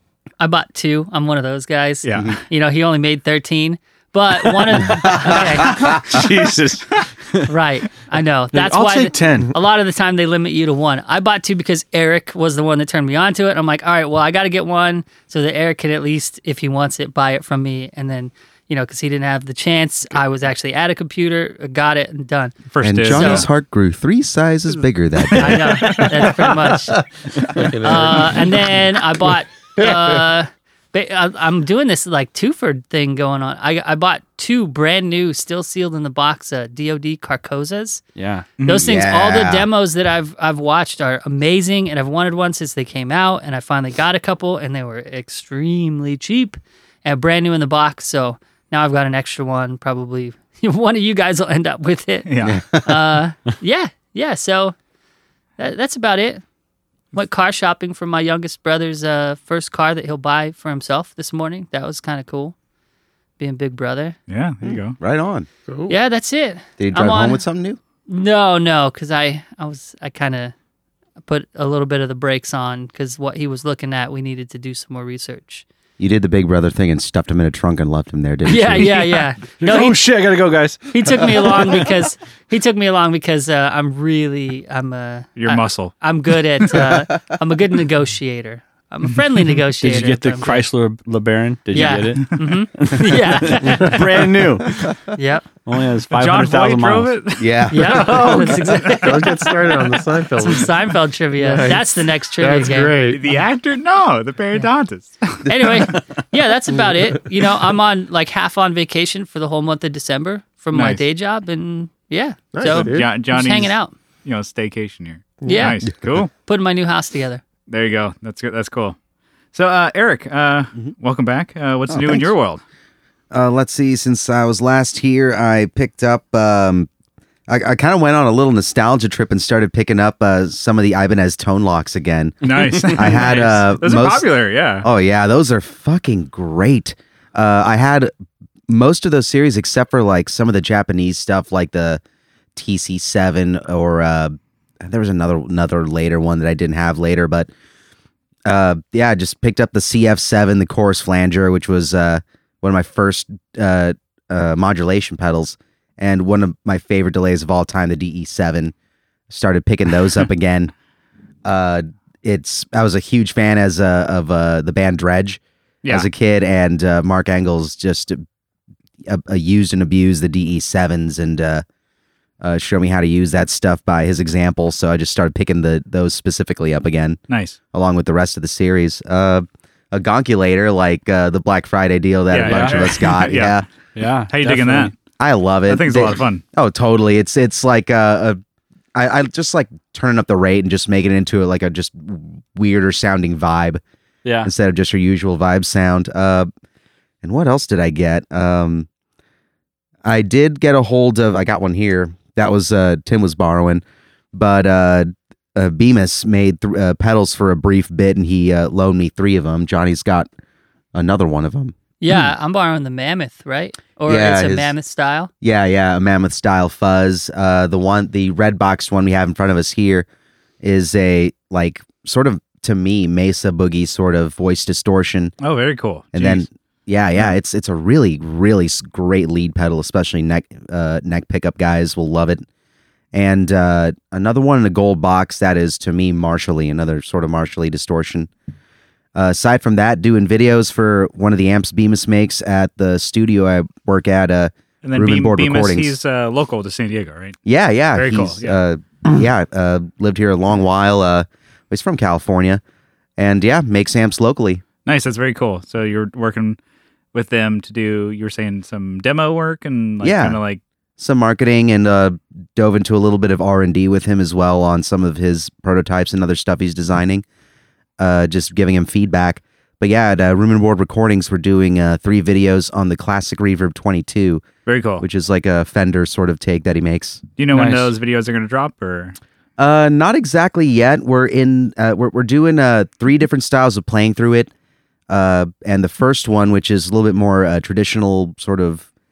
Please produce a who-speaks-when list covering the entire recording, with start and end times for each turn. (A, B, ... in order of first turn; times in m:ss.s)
0:00.4-0:05.9 A
0:02.0-0:02.4 B
0:04.7-0:07.5 C
0:07.5-0:22.6 A
0:08.5-0:09.5 C
0:22.7-0:23.5 B
0:22.8-0:26.0 D
0:23.1-0:23.4 A
0:25.3-0:27.0 A
0:25.9-0:26.8 E
0:27.4-0:28.8 E
0:27.6-0:38.0 A
0:38.2-0:38.5 C
0:38.6-0:38.8 B
0:38.6-0:54.8 A
0:38.7-0:39.7 D
0:52.3-0:52.6 B
0:52.4-0:53.2 D
0:55.6-0:56.4 A
0:57.1-1:02.6 A
1:03.4-1:04.2 A
1:04.3-1:05.0 B
1:04.6-1:05.5 D
1:05.7-1:06.0 E
1:05.9-1:07.4 A
1:06.8-1:07.8 D
1:08.1-1:10.5 A
1:11.3-1:15.6 A
1:16.0-1:19.0 D
1:18.5-1:20.0 A
1:19.6-1:21.9 C
1:20.9-1:30.7 A
1:25.4-1:25.9 B
1:29.8-1:34.8 C
1:31.7-1:34.2 A
1:35.1-1:35.5 A
1:35.7-1:37.1 C
1:36.1-1:37.6 B
1:37.4-1:38.6 D
1:37.7-1:39.7 A
1:37.9-1:43.4 E
1:40.4-1:42.9 A
1:43.1-1:46.0 B
1:45.4-1:53.9 A
1:50.7-1:51.0 B
1:52.5-1:53.1 E
1:52.6-1:56.3 B
1:55.4-1:55.8 A
1:56.4-1:57.4 A
1:57.7-1:59.0 B
1:59.5-2:02.6 B
2:01.9-2:02.3 D
2:03.3-2:06.9 D
2:07.5-2:14.3 D
2:12.4-2:14.9 B
2:12.8-2:13.2 C
2:14.8-2:18.1 D
2:18.7-2:22.0 D
2:22.6-2:27.5 D
2:28.5-2:38.7 D
2:39.3-2:40.7 D
2:41.4-2:48.2 D
2:49.0-2:51.6 D
2:52.4-2:57.2 D
2:57.3-2:57.6 B
2:57.7-3:03.7 D
3:02.3-3:03.6 B
3:02.4-3:02.8 C
3:04.0-3:04.9 C
3:04.3-3:04.9 B
3:05.2-3:08.4 D
3:05.7-3:06.4 B
3:09.0-3:13.8 D
3:14.2-3:14.5 C
3:14.4-3:16.5 D
3:17.2-3:18.9 D
3:20.0-3:23.8 D
3:24.3-3:30.3 D
3:30.9-3:32.2 D
3:32.0-3:35.3 A
3:34.1-3:34.7 D
3:35.4-3:40.1 D
3:40.6-3:45.3 D
3:45.4-3:46.5 B
3:46.1-3:52.4 D
3:53.1-3:58.3 D
3:59.2-4:05.9 D
4:04.8-4:07.4 B
4:07.4-4:12.6 D
4:07.9-4:08.6 B
4:13.2-4:14.6 D
4:14.9-4:16.6 B
4:17.1-4:20.6 B
4:20.0-4:20.4 D
4:21.0-4:27.2 D
4:28.0-4:34.4 D
4:34.7-4:35.0 B
4:35.0-4:37.2 D
4:37.4-4:39.2 B
4:37.5-4:37.9 C
4:39.6-4:44.5 D
4:45.1-4:48.9 D